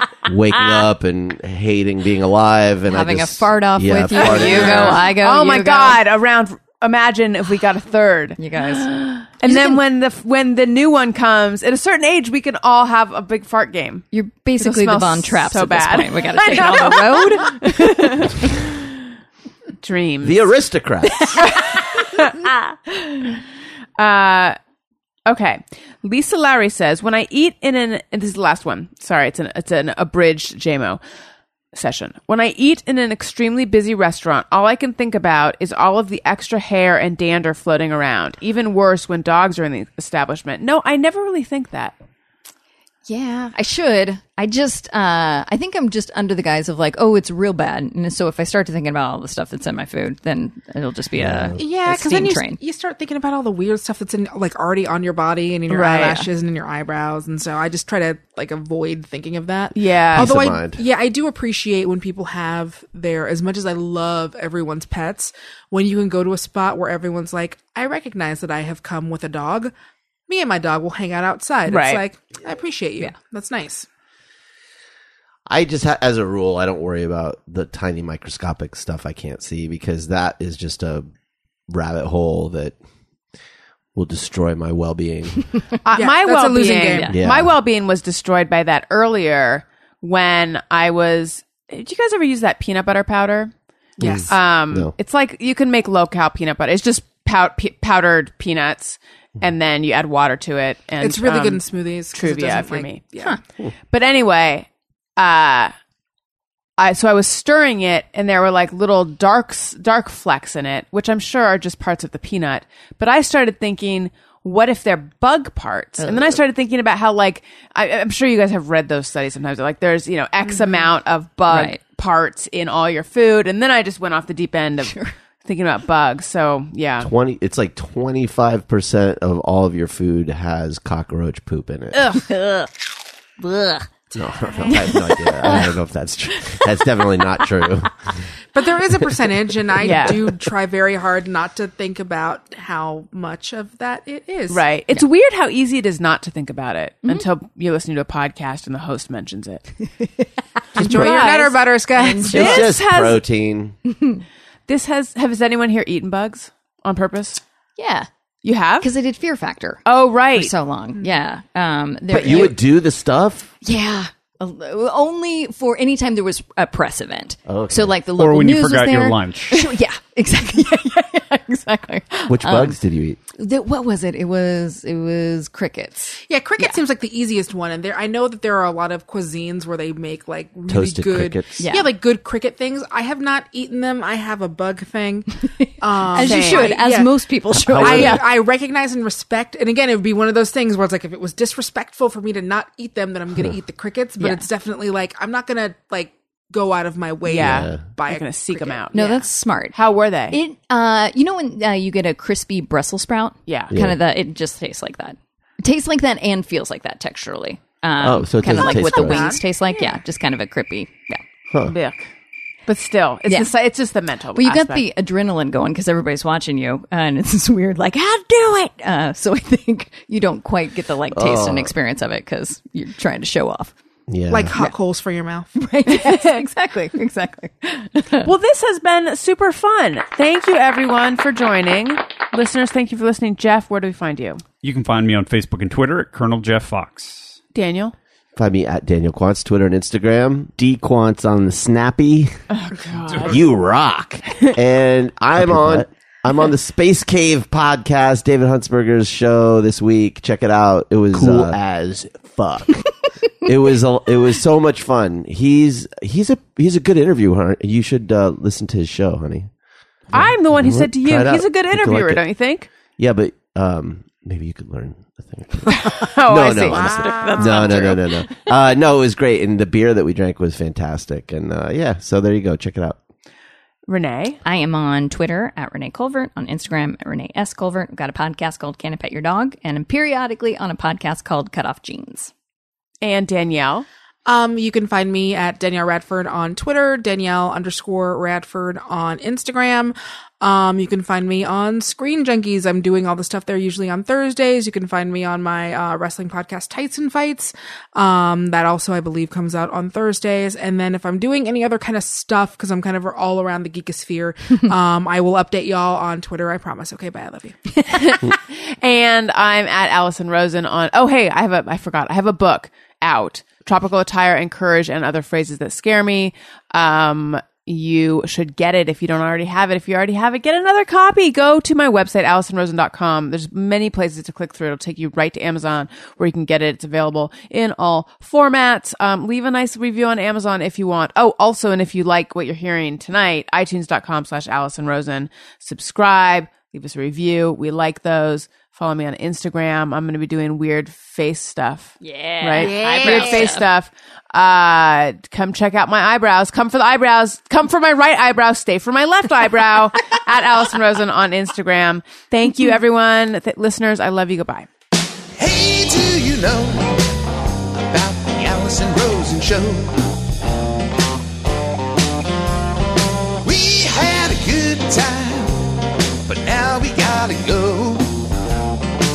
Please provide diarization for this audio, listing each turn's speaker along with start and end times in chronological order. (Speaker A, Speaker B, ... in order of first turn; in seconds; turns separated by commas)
Speaker A: 0.2-5.0, Speaker B: 2.9-6.0, Speaker C: 4.1-14.1, Speaker B: 8.4-9.8, Speaker B: 14.1-18.4, Speaker C: 14.6-18.4, Speaker C: 19.8-20.6, Speaker A: 20.2-21.5, Speaker B: 21.1-23.4, Speaker C: 21.4-22.4, Speaker C: 24.0-24.6, Speaker C: 25.3-31.0, Speaker C: 31.7-42.0, Speaker B: 43.1-52.6, Speaker A: 51.2-51.6, Speaker D: 51.6-69.7, Speaker C: 55.7-56.2, Speaker C: 59.7-60.4, Speaker A: 60.1-60.8, Speaker D: 70.3-73.9, Speaker C: 71.7-72.0, Speaker A: 75.5-81.1, Speaker A: 81.7-82.8, Speaker A: 84.0-85.5, Speaker D: 85.9-87.1, Speaker C: 85.9-93.5, Speaker A: 87.1-87.5, Speaker D: 94.0-94.4, Speaker A: 94.0-94.9, Speaker C: 94.3-103.1, Speaker D: 101.0-103.4, Speaker C: 103.9-105.7, Speaker C: 106.8-127.1, Speaker B: 116.0-116.4, Speaker B: 121.5-121.8, Speaker B: 124.8-125.1, Speaker A: 127.0-132.2, Speaker B: 132.0-132.7, Speaker B: 133.4-133.9, Speaker A: 134.1-138.1, Speaker B: 134.7-135.7, Speaker D: 138.5-144.7, Speaker C: 139.8-140.2, Speaker C: 144.5-149.7, Speaker B: 150.0-151.3, Speaker D: 150.7-152.7, Speaker C: 150.8-153.2, Speaker B: 151.9-152.7, Speaker A: 152.3-153.8, Speaker B: 153.9-154.2, Speaker C: 154.7-157.4, Speaker B: 157.8-158.1, Speaker C: 158.4-158.9, Speaker B: 158.8-159.8, Speaker C: 159.8-160.5, Speaker B: 160.3-162.6, Speaker A: 162.1-163.5, Speaker B: 163.6-172.8, Speaker A: 167.5-168.0, Speaker E: 168.2-169.6, Speaker A: 172.3-173.2, Speaker B: 173.4-176.8, Speaker D: 176.3-198.9, Speaker A: 180.7-181.6, Speaker B: 181.6-181.9, Speaker B: 185.6-188.3, Speaker C: 186.2-186.7, Speaker A: 187.6-188.2, Speaker B: 194.2-194.5, Speaker C: 197.3-199.2, Speaker A: 197.3-197.8, Speaker B: 198.9-199.8, Speaker C: 199.7-200.4, Speaker B: 200.3-211.2, Speaker C: 203.5-203.7, Speaker A: 203.7-204.0, Speaker A: 208.0-209.3, Speaker D: 208.5-209.4, Speaker C: 209.7-210.0, Speaker C: 211.7-212.1, Speaker C: 212.7-214.9, Speaker B: 214.3-223.7, Speaker A: 221.1-221.7, Speaker A: 224.1-224.6, Speaker D: 224.3-225.5, Speaker B: 225.6-228.3, Speaker C: 228.2-234.4, Speaker E: 234.6-237.4, Speaker C: 237.5-237.9, Speaker A: 238.4-242.4, Speaker C: 242.5-243.4, Speaker A: 243.2-252.9, Speaker A: 253.4-259.5, Speaker A: 260.1-262.2, Speaker C: 260.1-262.7, Speaker A: 263.0-273.0, Speaker C: 265.7-268.1, Speaker B: 267.1-268.5, Speaker C: 273.9-274.4, Speaker B: 274.4-282.3, Speaker C: 283.0-283.9, Speaker D: 284.3-307.8, Speaker C: 307.9-354.7, Speaker B: 342.0-343.7, Speaker D: 342.6-343.6, Speaker F: 355.4-357.1, Speaker F: 357.8-359.9, Speaker F: 363.4-365.6, Speaker F: 366.3-368.1